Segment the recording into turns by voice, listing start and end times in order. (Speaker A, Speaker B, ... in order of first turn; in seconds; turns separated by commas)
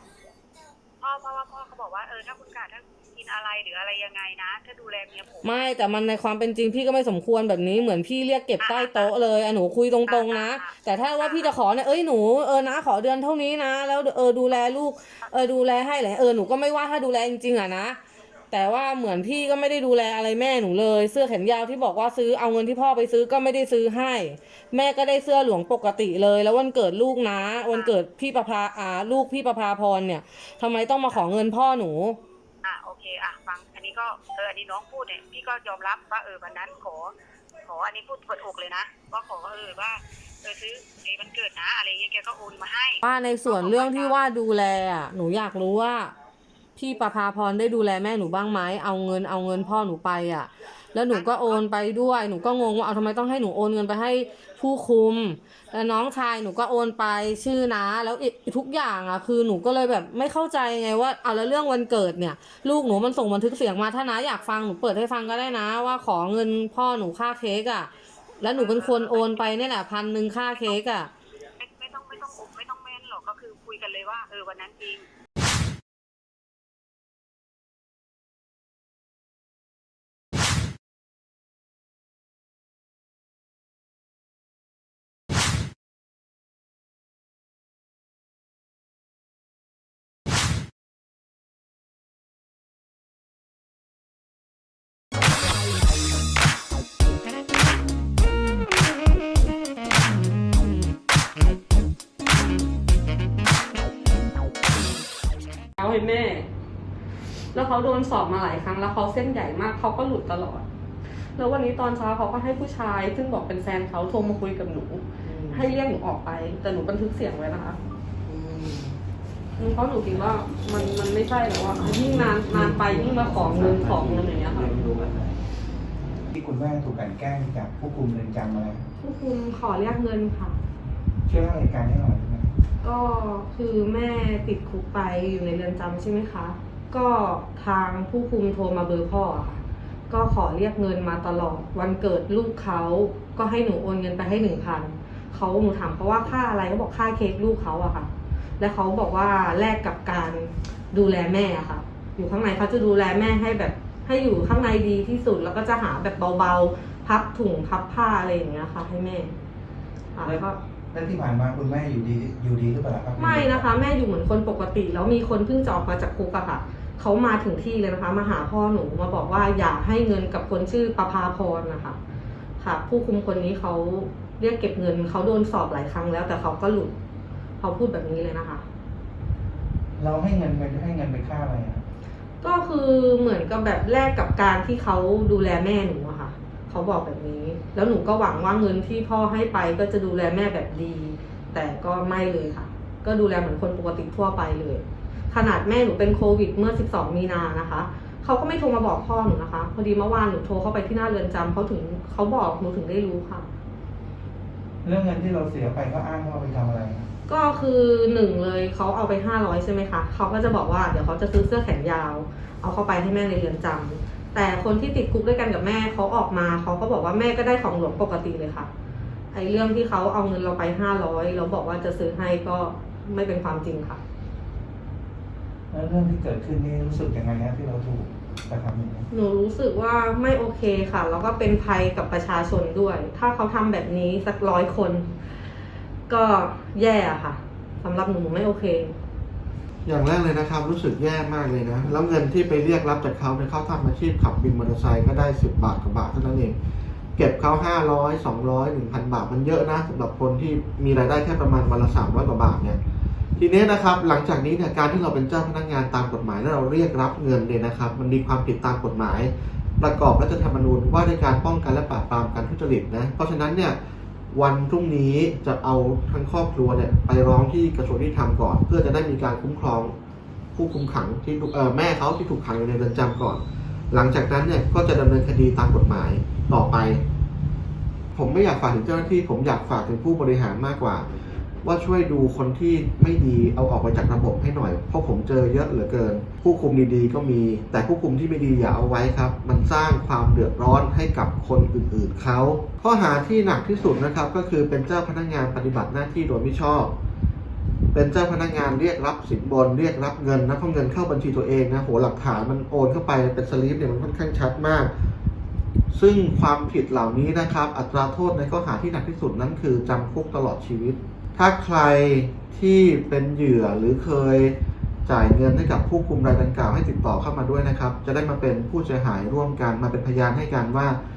Speaker A: 1.0-5.7, Speaker B: 5.4-18.0, Speaker A: 8.6-9.1, Speaker A: 10.1-11.6, Speaker B: 18.5-32.2, Speaker A: 27.7-27.9, Speaker A: 32.6-37.1, Speaker A: 37.6-44.2, Speaker B: 43.0-46.1, Speaker B: 46.8-71.1, Speaker A: 51.1-51.6, Speaker A: 68.5-69.5, Speaker A: 71.6-75.0, Speaker B: 105.8-106.5, Speaker B: 107.5-110.7, Speaker B: 111.3-117.8, Speaker C: 115.2-115.6, Speaker C: 118.3-118.9, Speaker B: 119.6-124.7, Speaker C: 121.8-125.4, Speaker C: 126.3-128.9, Speaker B: 129.0-130.6, Speaker C: 131.3-132.5, Speaker B: 132.8-159.3, Speaker B: 160.1-160.6, Speaker C: 160.2-163.7, Speaker B: 163.2-172.0, Speaker B: 172.6-176.9, Speaker B: 177.6-178.6, Speaker C: 180.0-181.8, Speaker B: 182.4-203.5, Speaker C: 204.8-207.1, Speaker B: 207.3-218.7, Speaker B: 219.3-224.0, Speaker C: 225.7-229.1, Speaker B: 229.1-235.1, Speaker B: 236.1-238.9, Speaker D: 239.8-246.6, Speaker D: 247.2-252.8, Speaker D: 253.4-263.8, Speaker D: 264.3-269.9, Speaker D: 270.5-277.0, Speaker D: 278.1-281.1, Speaker D: 281.6-296.9, Speaker D: 297.9-304.9, Speaker D: 305.9-314.5, Speaker D: 315.1-321.0